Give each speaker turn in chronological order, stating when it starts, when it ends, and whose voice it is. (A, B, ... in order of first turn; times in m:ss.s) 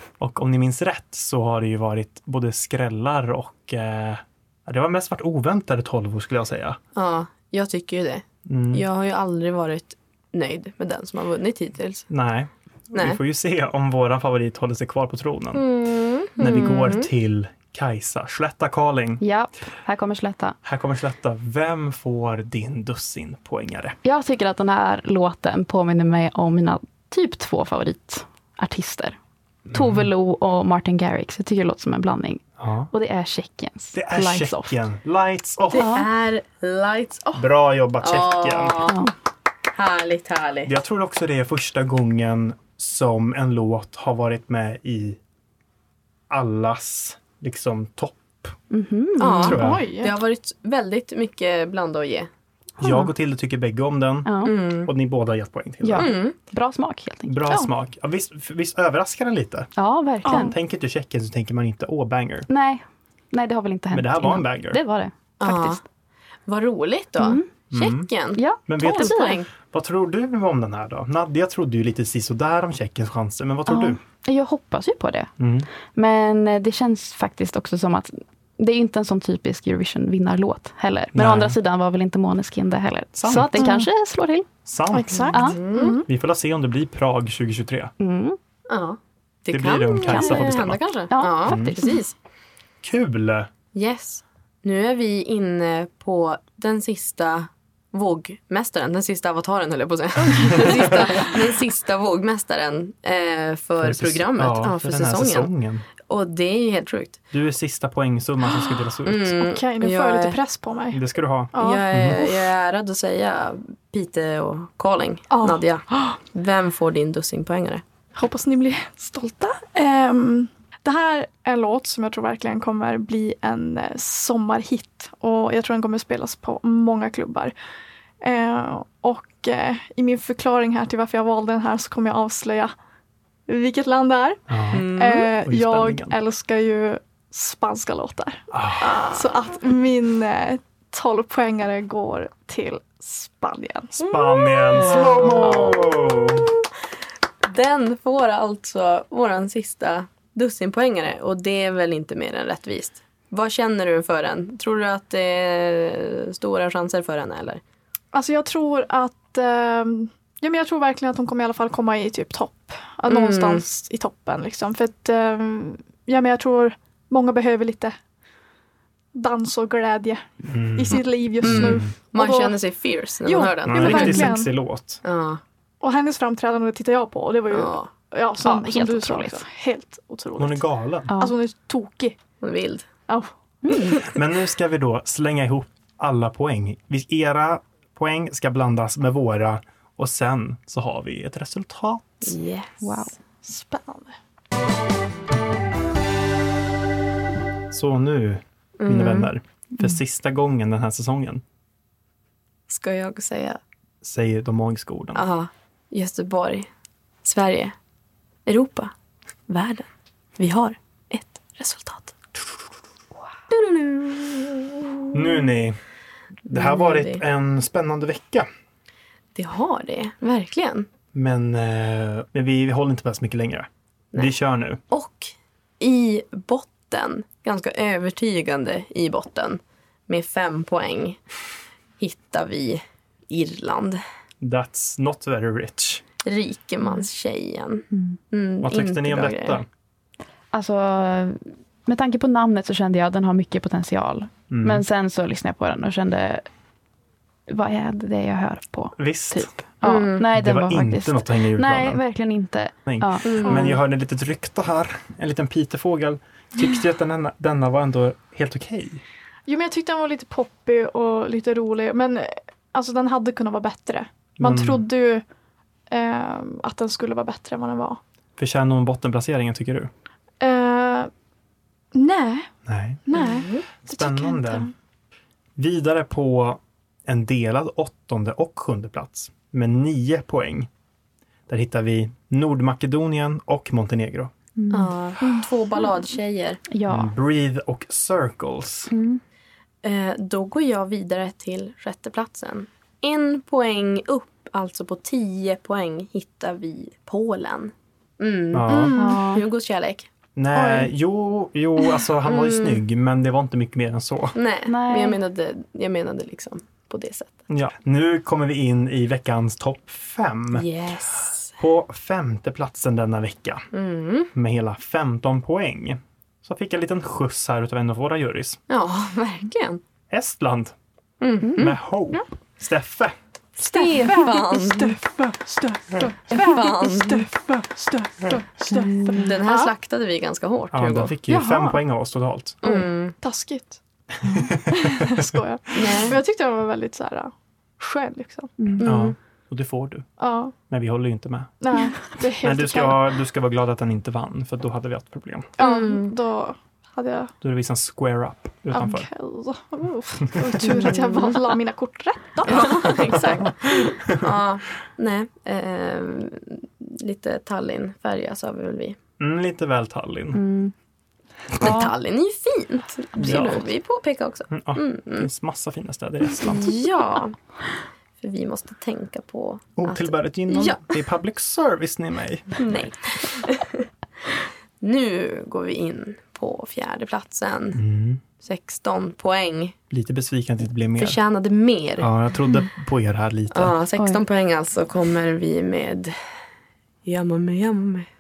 0:00.2-0:06.8 A
0:06.9-0:12.1 B
0:08.4-0:08.8 A
0:12.1-0:15.6 A
0:12.9-0:13.2 B
0:15.5-0:17.1 B
0:16.4-0:19.2 A
0:19.2-0:20.6 C
0:20.6-0:24.0 A
0:24.0-0:29.2 C
0:29.7-0:34.8 C
0:29.7-0:30.1 A
0:32.6-0:32.9 A
0:33.9-0:35.9 A
0:35.7-0:37.4 B
0:35.8-0:36.0 C
0:37.4-0:38.9 A
0:38.0-0:39.1 B
0:39.7-0:40.7 B
0:40.6-0:45.2 A
0:46.3-0:48.6 A
0:48.7-0:49.6 C
0:49.2-0:52.3 B
0:49.4-0:49.8 A
0:49.5-0:50.1 D
0:52.8-0:53.1 C
0:52.8-0:56.1 A
0:54.2-0:54.5 C
0:54.4-0:54.9 B
0:55.8-0:57.5 C
0:56.0-0:56.4 B
0:57.3-0:59.7 A
0:59.8-1:00.6 C
1:00.2-1:02.5 A
1:02.5-1:05.8 C
1:03.9-1:04.8 A
1:05.4-1:05.8 B
1:06.5-1:09.5 B
1:07.2-1:07.5 C
1:07.7-1:08.1 A
1:08.4-1:09.4 C
1:08.7-1:14.0 A
1:13.7-1:15.3 C
1:15.4-1:15.7 A
1:15.9-1:24.5 C
1:21.1-1:21.6 A
1:23.2-1:23.7 A
1:23.6-1:23.9 D
1:24.6-1:25.4 A
1:24.9-1:26.1 D
1:25.3-1:25.6 C
1:25.4-1:26.0 B
1:26.0-1:27.9 A
1:28.0-1:28.4 C
1:28.7-1:32.1 B
1:29.5-1:30.8 A
1:30.0-1:30.4 C
1:31.1-1:32.0 C
1:31.4-1:31.8 A
1:32.8-1:33.5 A
1:33.7-1:45.5 B
1:40.5-1:41.0 D
1:43.8-1:45.8 A
1:46.0-1:47.2 B
1:47.3-1:49.3 A
1:49.0-1:50.4 B
1:49.4-1:51.0 D
1:50.9-1:52.2 A
1:51.5-1:52.3 D
1:51.6-1:57.8 B
1:55.3-1:56.2 D
1:58.1-2:07.5 D
2:08.2-2:12.7 D
2:13.5-2:18.5 D
2:14.5-2:16.2 A
2:14.7-2:15.3 B
2:18.5-2:18.9 A
2:18.8-2:19.3 B
2:19.0-2:24.0 D
2:24.0-2:26.3 B
2:24.0-2:26.5 A
2:27.4-2:37.6 B
2:38.1-2:48.0 D
2:43.1-2:43.6 B
2:49.1-2:52.6 D
2:50.5-2:51.9 A
2:51.4-2:54.4 B
2:53.2-2:54.5 D
2:53.6-2:55.0 A
2:55.0-2:55.4 B
2:55.8-3:00.6 D
2:57.5-2:57.9 B
2:58.4-2:59.4 C
3:00.4-3:01.1 A
3:01.1-3:01.4 C
3:01.2-3:02.2 D
3:02.4-3:02.9 B
3:03.1-3:03.9 D
3:03.6-3:04.1 C
3:04.0-3:12.3 A
3:12.2-3:12.9 B
3:12.8-3:13.2 C
3:13.4-3:14.2 D
3:17.7-3:21.4 A
3:18.8-3:19.3 B
3:22.7-3:23.6 B
3:24.0-3:25.2 A
3:25.1-3:26.7 B
3:27.2-3:27.7 B
3:28.4-3:28.9 B
3:29.5-3:32.2 B
3:33.5-3:35.2 B
3:35.1-3:35.8 A
3:36.5-3:38.5 A
3:36.5-3:37.2 B
3:39.3-3:40.9 B
3:41.1-3:44.8 A
3:44.9-3:51.2 B
3:52.0-3:54.0 B
3:54.4-3:56.0 A
3:56.2-3:59.6 B
3:58.6-3:59.7 A
4:00.5-4:06.4 C
4:04.5-4:04.8 A
4:07.5-4:13.4 C
4:09.0-4:09.5 A
4:09.8-4:10.3 B
4:10.3-4:12.0 A
4:12.8-4:19.0 A
4:13.2-4:13.7 B
4:13.4-4:13.8 D
4:19.5-4:25.2 D
4:24.4-4:24.8 A
4:25.9-4:28.0 D
4:28.4-4:29.9 A
4:30.4-4:31.1 D
4:31.9-4:32.5 D
4:32.6-4:33.0 A
4:33.0-4:34.7 D
4:33.1-4:33.6 B
4:33.8-4:34.7 A
4:35.6-4:40.7 A
4:41.5-4:44.3 A
4:44.6-4:44.9 C
4:44.7-4:46.6 B
4:46.7-4:47.1 C
4:46.8-4:48.9 A
4:48.9-4:49.2 C
4:49.8-5:00.1 B
4:58.5-4:58.9 A
4:58.9-4:59.2 D
4:59.0-4:59.4 C
5:00.3-5:04.4 A
5:00.5-5:00.9 D
5:02.2-5:02.8 B
5:04.3-5:07.4 B
5:04.6-5:05.2 C
5:07.5-5:10.7 A
5:10.5-5:11.5 B
5:11.2-5:13.6 A
5:13.7-5:14.3 B
5:14.3-5:18.6 A
5:18.7-5:19.8 B
5:20.1-5:20.7 A
5:21.2-5:22.2 B
5:21.6-5:23.1 A
5:23.6-5:25.0 B
5:23.6-5:29.7 D
5:26.3-5:27.3 B
5:28.7-5:29.4 C
5:29.1-5:31.1 B
5:30.7-5:32.6 A
5:31.3-5:31.8 D
5:32.6-5:33.2 B
5:32.6-5:33.8 D
5:34.2-5:34.6 C
5:34.2-5:35.4 A
5:34.7-5:38.5 D
5:35.7-5:36.2 B
5:38.6-5:38.8 C
5:38.8-5:40.0 A
5:38.8-5:39.2 B
5:40.2-5:40.5 D
5:40.6-5:41.5 A
5:41.6-5:43.0 D
5:42.4-5:45.5 A
5:45.6-5:47.3 D
5:45.6-5:46.1 B
5:47.4-5:49.1 A
5:48.7-5:53.5 D
5:52.4-5:59.0 B
5:59.2-6:00.4 A
6:00.3-6:00.7 C
6:01.5-6:05.3 B
6:01.6-6:01.9 C
6:03.2-6:03.7 A
6:04.5-6:06.7 A
6:06.4-6:07.3 B
6:08.2-6:10.9 B
6:09.8-6:12.7 A
6:12.6-6:13.8 B
6:14.8-6:17.8 B
6:17.7-6:18.2 A
6:18.4-6:19.7 B
6:19.9-6:21.2 A
6:21.0-6:22.1 B
6:22.0-6:23.7 A
6:23.5-6:26.1 B
6:27.0-6:28.1 B